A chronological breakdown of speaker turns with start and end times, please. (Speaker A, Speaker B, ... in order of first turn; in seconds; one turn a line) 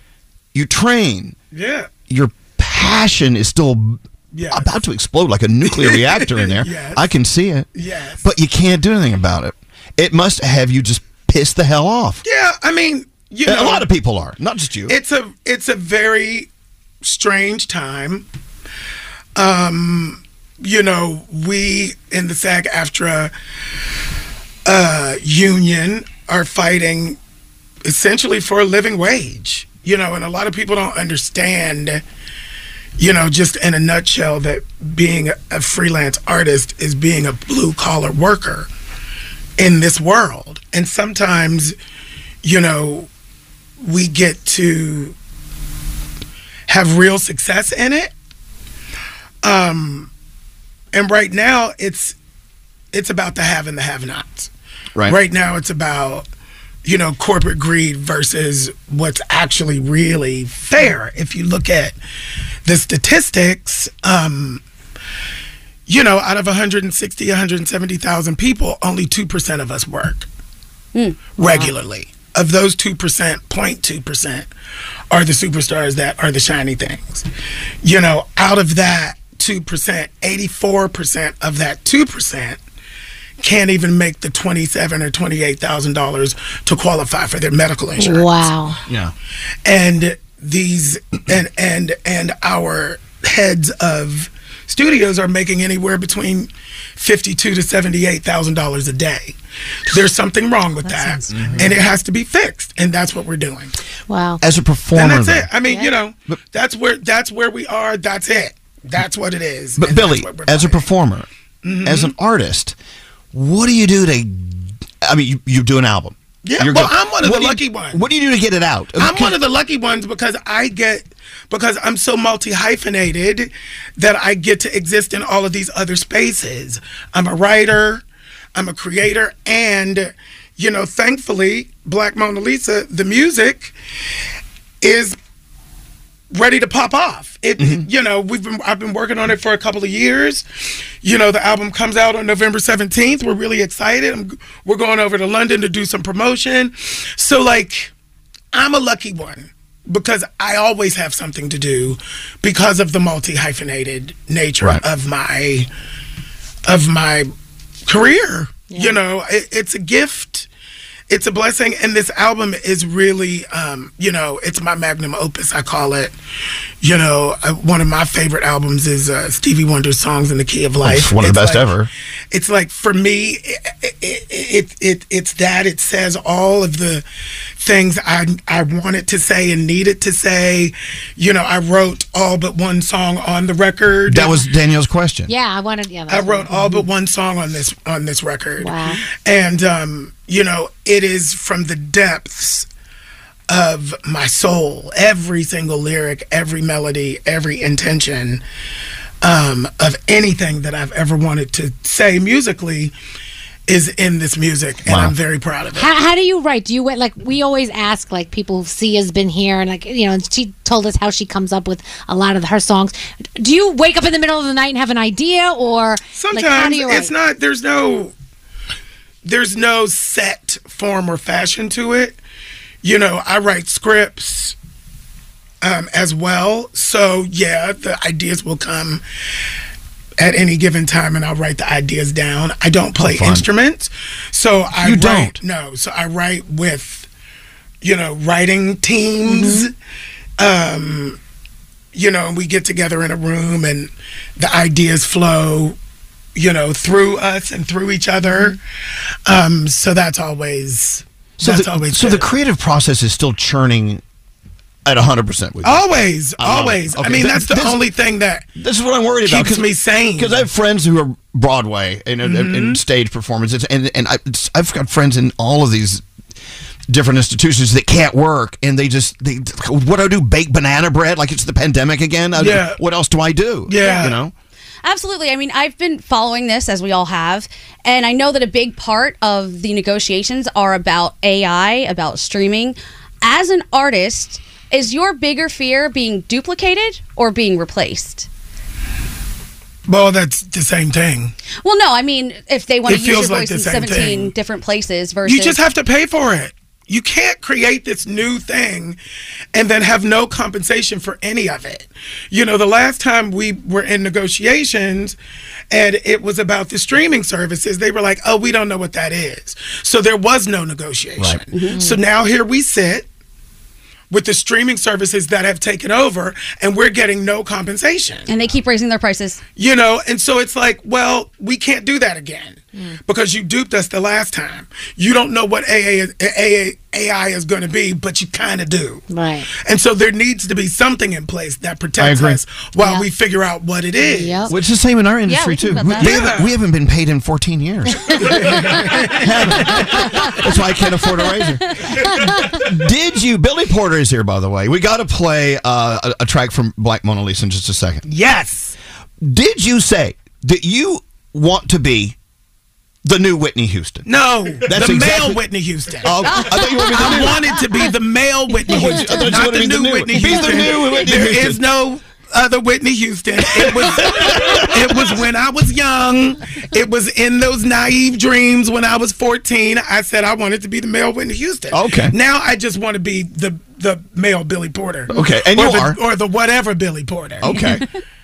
Speaker A: 0.5-1.4
Speaker B: 1.5-1.9
Speaker A: 2.1-7.7
Speaker B: 4.3-4.7
Speaker B: 5.7-7.0
Speaker B: 7.7-8.2
Speaker A: 8.2-12.2
Speaker B: 12.2-13.9
Speaker A: 13.4-15.0
Speaker B: 14.9-16.5
Speaker B: 17.0-18.3
Speaker B: 19.4-23.3
Speaker B: 24.7-27.2
Speaker B: 27.8-32.0
Speaker B: 33.0-38.7
Speaker B: 39.6-41.8
Speaker B: 42.4-43.1
Speaker B: 43.8-45.1
Speaker B: 46.7-48.1
Speaker B: 49.4-50.1
Speaker B: 50.9-52.2
Speaker B: 52.9-54.5
Speaker B: 55.1-56.3
Speaker B: 56.9-62.0
Speaker B: 62.7-64.6
Speaker B: 65.9-70.3
Speaker C: 70.9-71.2
Speaker B: 71.4-74.5
Speaker D: 71.5-71.7
Speaker B: 75.1-77.3
Speaker B: 77.8-82.6
Speaker B: 83.4-88.5
Speaker D: 88.0-88.8
Speaker A: 88.9-89.1
Speaker B: 89.7-99.4
Speaker B: 99.9-103.7
Speaker D: 100.8-101.3
Speaker A: 101.4-101.7
Speaker D: 104.1-104.4
Speaker A: 104.4-105.5
Speaker B: 104.9-110.9
Speaker D: 105.7-105.9
Speaker A: 109.8-111.3
Speaker B: 111.6-112.1
Speaker A: 111.8-112.8
Speaker A: 113.3-119.4
Speaker B: 116.4-118.0
Speaker B: 119.0-128.0
Speaker B: 128.6-133.7
Speaker B: 134.8-135.2
Speaker B: 136.3-147.9
Speaker A: 137.6-137.9
Speaker B: 148.5-155.7
Speaker B: 156.7-157.3
Speaker B: 157.9-160.5
Speaker D: 158.7-159.0
Speaker B: 161.1-166.1
Speaker B: 166.8-171.7
Speaker A: 170.8-171.9
Speaker B: 172.3-177.1
Speaker B: 177.6-184.3
Speaker A: 184.1-185.3
Speaker D: 185.3-186.9
Speaker B: 186.1-192.7
Speaker D: 188.6-189.0
Speaker B: 193.5-198.4
Speaker B: 199.2-202.9
Speaker B: 203.7-205.9
Speaker A: 204.9-205.1
Speaker D: 205.8-217.1
Speaker B: 216.2-218.1
Speaker B: 219.2-222.2
Speaker B: 222.8-224.6
Speaker B: 225.6-229.0
Speaker B: 230.2-237.1
Speaker A: 233.0-233.5
Speaker A: 234.8-235.4
Speaker B: 237.8-239.7
Speaker D: 239.3-239.7
Speaker B: 240.4-241.2
Speaker B: 241.9-245.8
Speaker B: 246.3-248.6
Speaker B: 249.3-252.3
Speaker A: 251.4-254.0
Speaker A: 254.8-255.8
Speaker B: 255.6-258.5
Speaker A: 256.4-257.8
Speaker A: 258.6-266.0
Speaker B: 259.2-260.5
Speaker B: 262.2-262.8
Speaker A: 266.9-274.3
Speaker B: 272.4-272.8
Speaker B: 273.7-274.2
Speaker C: 273.8-274.1
Speaker C: 274.8-288.3
Speaker B: 289.9-291.3
Speaker C: 291.6-295.6
Speaker B: 292.9-294.3
Speaker B: 295.2-299.0
Speaker B: 299.5-305.2
Speaker B: 305.7-313.1
Speaker C: 311.5-311.9
Speaker B: 314.1-318.3
Speaker C: 318.3-319.4
Speaker B: 319.6-329.1
Speaker D: 329.1-329.5
Speaker B: 329.6-334.5
Speaker A: 332.0-332.4
Speaker D: 332.8-333.1
Speaker D: 334.0-334.6
Speaker A: 334.5-338.2
Speaker C: 335.3-336.3
Speaker B: 336.0-336.5
Speaker B: 338.3-339.9
Speaker A: 339.2-348.1
Speaker B: 348.1-348.8
Speaker A: 349.2-352.2
Speaker A: 353.0-354.1
Speaker B: 354.1-377.8
Speaker A: 354.6-355.4
Speaker A: 356.0-357.4
Speaker C: 356.2-357.2
Speaker A: 358.7-361.6
Speaker A: 363.9-364.8
Speaker A: 371.7-372.1
Speaker A: 375.1-376.0
Speaker A: 377.4-377.8
Speaker C: 377.5-377.9